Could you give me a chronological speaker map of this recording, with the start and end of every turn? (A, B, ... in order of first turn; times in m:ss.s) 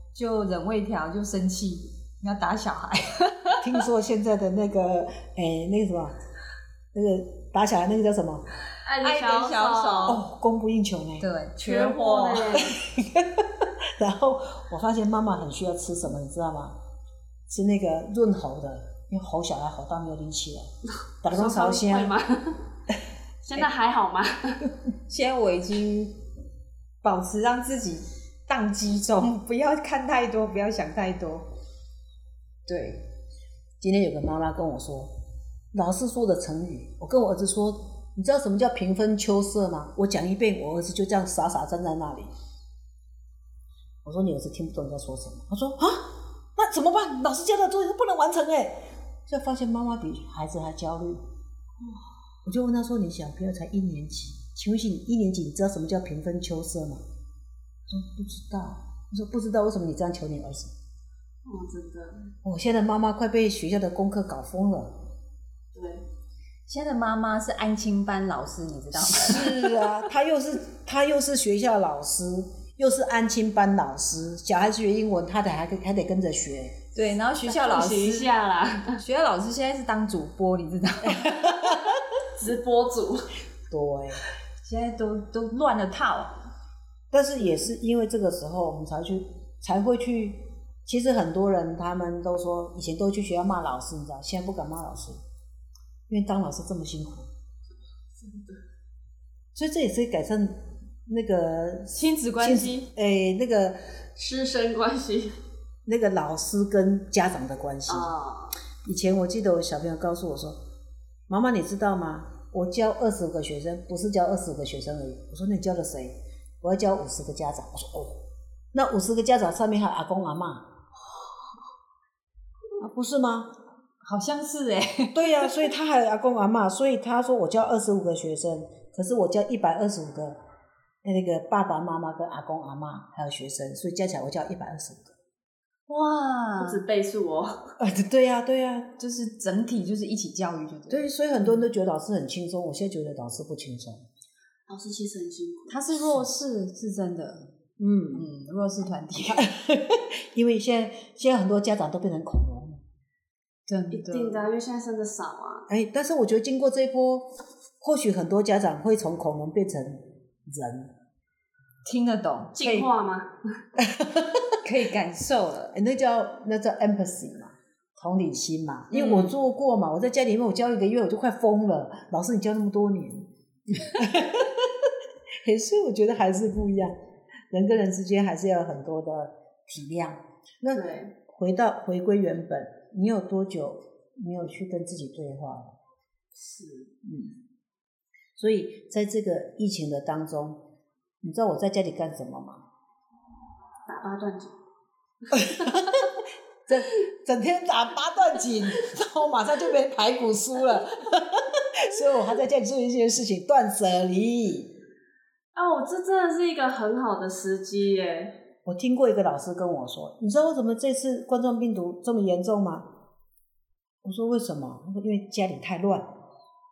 0:00.1-0:03.6 A
0:03.6-0:06.2 B
0:06.9-0:08.4 B
0:08.8-0:10.2 C
0:09.0-0:10.2 A
0:10.1-0:11.3 B
0:11.2-0:12.6 A
0:11.6-0:12.8 C
0:12.6-0:16.8 B
0:17.5-0:20.7 B
0:21.2-0:22.1 B
0:21.3-0:22.6 C
0:23.4-0:24.6 C
0:25.1-0:26.2 A
0:27.0-0:31.4 A
0:32.6-0:33.0 A
0:33.8-0:35.1 B
0:35.7-0:42.3 B
0:44.0-0:51.2 B
0:51.8-0:52.2 C
0:52.4-0:57.0 B
0:57.9-1:00.7 B
1:01.4-1:02.3 C
1:02.4-1:05.0 B
1:05.7-1:06.0 C
1:06.7-1:09.8 A
1:09.0-1:16.8 B
1:16.9-1:18.3 A
1:17.4-1:19.0 C
1:18.9-1:21.9 A
1:21.1-1:21.9 B
1:22.4-1:23.3 C
1:23.7-1:24.2 B
1:24.6-1:26.4 A
1:27.1-1:35.2 B
1:36.1-1:37.3 B
1:38.2-1:38.6 C
1:39.5-1:43.8 B
1:41.9-1:42.9 A
1:44.2-1:45.4 C
1:45.8-1:48.1 B
1:47.9-1:48.6 C
1:48.8-1:50.6 B
1:51.3-2:00.7 B
2:02.8-2:03.5 B
2:04.0-2:05.5 A
2:05.1-2:10.4 B
2:11.0-2:15.1 B
2:15.9-2:16.8 A
2:16.6-2:17.7 C
2:17.8-2:18.9 B
2:19.0-2:21.0 A
2:20.9-2:24.0 B
2:24.7-2:25.8 C
2:25.7-2:27.5 A
2:27.8-2:28.3 B
2:28.1-2:29.5 A
2:29.3-2:32.8 B
2:33.7-2:34.5 A
2:33.9-2:35.6 C
2:35.7-2:37.3 B
2:37.8-2:40.9 B
2:41.8-2:42.9 A
2:42.6-2:43.3 C
2:43.8-2:44.6 B
2:44.6-2:45.8 A
2:45.7-2:54.9 B
2:48.9-2:49.3 A
2:55.4-2:56.9 B
2:57.5-3:05.7 B
3:00.7-3:01.1 C
3:06.3-3:06.9 C
3:07.0-3:07.4 B
3:08.4-3:10.6 B
3:11.2-3:12.6 B
3:13.8-3:14.6 C
3:15.3-3:15.8 C
3:15.3-3:16.1 B
3:16.7-3:24.7 B
3:25.5-3:28.4 C
3:28.6-3:32.9 B
3:34.0-3:36.1 B